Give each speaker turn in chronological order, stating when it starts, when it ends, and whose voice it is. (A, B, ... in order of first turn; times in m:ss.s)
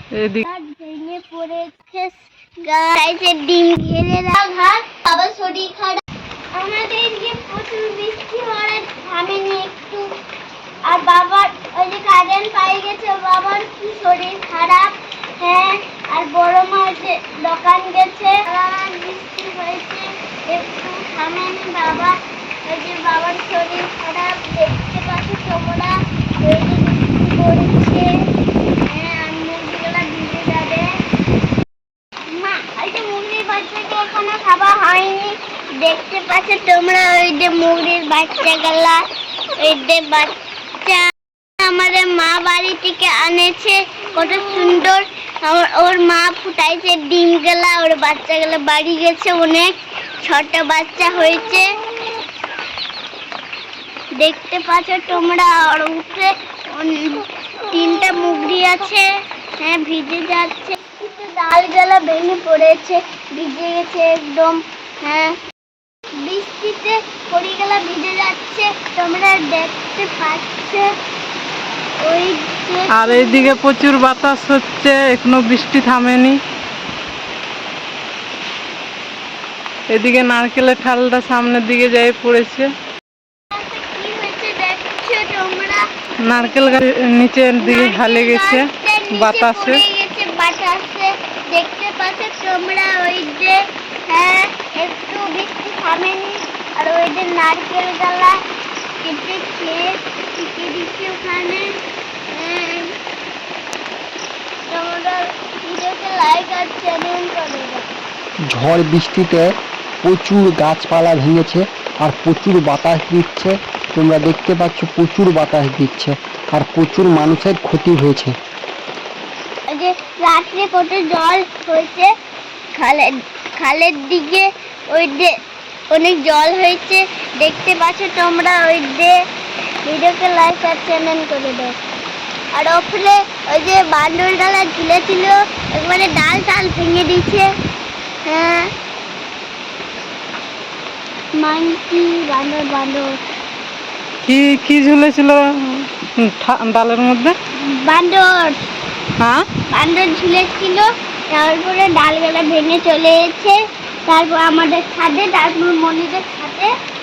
0:00.2-0:00.4 A
0:00.4-0:06.0 B
0:06.5-0:10.1 B
0:10.8-0:22.1 B
0:22.6-0:28.1 B
0:28.8-0:30.9 B
0:32.3-0:39.0 B
0:39.6-0:51.7 B
0:54.2-0:59.1 B
0:59.6-1:05.4 B
1:06.2-1:10.9 B
1:12.0-1:13.6 B
1:12.9-1:16.4 A
1:19.9-1:22.7 A
1:23.5-1:26.8 B
1:26.2-1:29.8 A
1:27.6-1:38.4 B
1:39.0-1:41.7 B
1:42.3-1:42.9 B
1:44.7-1:47.9 B
1:48.4-1:49.5 C
1:50.0-1:58.3 C
1:59.7-2:02.1 B
2:02.7-2:05.4 B
2:05.9-2:09.2 B
2:09.8-2:11.8 B
2:12.5-2:17.5 B
2:18.2-2:18.7 B
2:21.3-2:23.1 B
2:24.2-2:27.3 A
2:27.5-2:28.6 B
2:29.2-2:29.4 A
2:29.7-2:36.7 B